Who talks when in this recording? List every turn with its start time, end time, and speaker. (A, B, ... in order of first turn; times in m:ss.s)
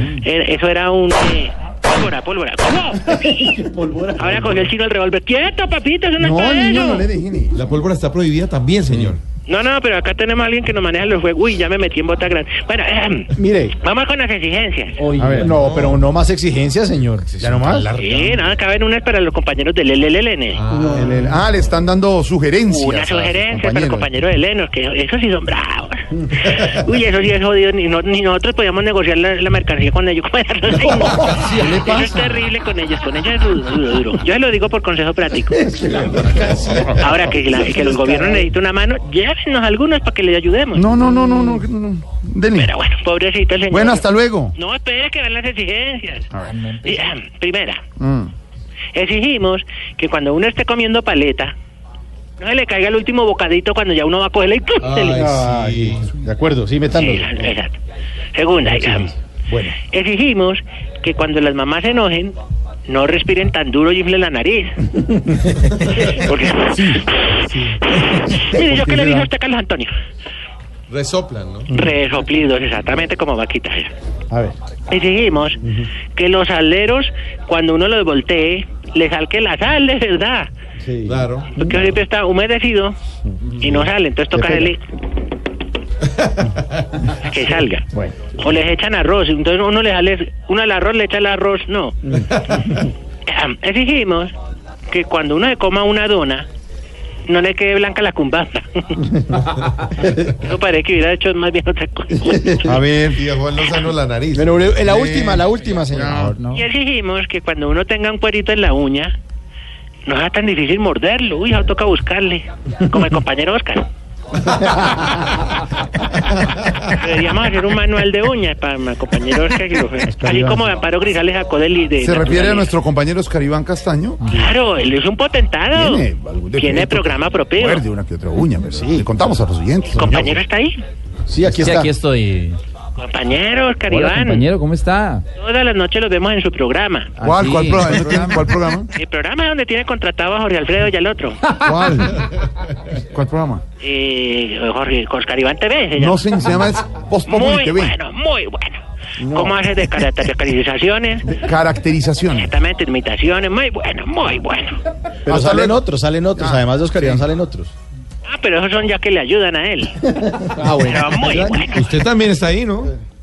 0:00.2-0:03.4 A
0:03.1-0:04.7 B
0:04.2-0:07.1 A
0:06.2-0:07.6 C
0:07.5-0:09.2 D
0:08.9-0:09.2 B
0:09.5-0:15.0 A
0:13.4-0:13.7 B
0:15.0-0:17.9 B
0:15.2-0:15.6 C
0:15.4-0:16.1 D
0:17.3-0:18.5 D
0:18.0-0:20.6 A
0:20.5-0:21.3 D
0:20.7-0:21.0 B
0:20.9-0:24.1 C
0:22.7-0:35.6 A
0:31.3-0:32.4 C
0:35.6-0:36.7 B
0:36.5-0:36.9 D
0:36.9-0:40.9 A
0:37.8-0:38.4 B
0:40.7-0:42.7 C
0:42.5-0:46.3 A
0:43.7-0:44.5 C
0:46.3-0:46.6 C
0:46.8-0:47.8 A
0:48.0-0:48.3 C
0:48.9-0:51.5 A
0:52.4-0:55.2 A
0:54.8-0:56.1 D
0:55.1-0:57.5 B
0:56.9-0:57.8 A
0:58.3-0:59.1 A
0:58.6-0:59.7 B
0:59.8-1:02.4 A
1:02.9-1:04.8 A
1:05.3-1:05.6 B
1:05.8-1:06.2 D
1:06.0-1:07.4 A
1:07.4-1:08.4 D
1:08.0-1:09.9 A
1:08.6-1:09.3 C
1:10.9-1:11.7 D
1:11.7-1:12.0 B
1:11.7-1:13.9 A
1:14.3-1:14.6 B
1:14.9-1:15.6 A
1:15.6-1:15.9 B
1:16.1-1:20.5 A
1:20.8-1:21.3 B
1:21.0-1:21.5 D
1:21.6-1:23.0 A
1:23.6-1:24.8 A
1:24.3-1:24.7 B
1:26.2-1:27.0 D
1:27.1-1:27.9 A
1:28.4-1:32.0 A
1:32.6-1:34.3 A
1:34.9-1:36.5 A
1:37.3-1:39.0 A
1:39.5-1:39.9 D
1:40.2-1:42.7 A
1:42.6-1:43.2 C
1:43.1-1:44.8 D
1:44.3-1:46.4 B
1:44.8-1:46.4 C
1:46.5-1:49.2 A
1:50.0-1:53.9 A
1:54.6-1:55.2 B
1:56.9-2:02.7 A
2:00.1-2:00.7 B
2:02.0-2:04.4 C
2:04.3-2:07.8 A
2:05.7-2:10.4 C
2:08.7-2:09.1 B
2:09.9-2:10.8 A
2:11.3-2:11.9 B
2:11.4-2:12.6 E
2:13.0-2:14.5 A
2:13.9-2:15.2 E
2:15.4-2:17.1 A
2:17.2-2:18.4 E
2:17.2-2:18.9 C
2:18.9-2:21.4 A
2:21.5-2:22.2 C
2:23.0-2:23.6 C
2:23.8-2:26.3 A
2:26.0-2:28.0 C
2:27.2-2:31.3 A
2:29.2-2:29.6 B
2:31.2-2:32.5 C
2:32.3-2:34.8 A
2:35.2-2:35.8 C
2:35.2-2:37.7 B
2:36.4-2:37.3 C
2:38.2-2:40.1 A
2:40.2-2:41.7 B
2:40.8-2:41.9 A
2:41.7-2:42.9 D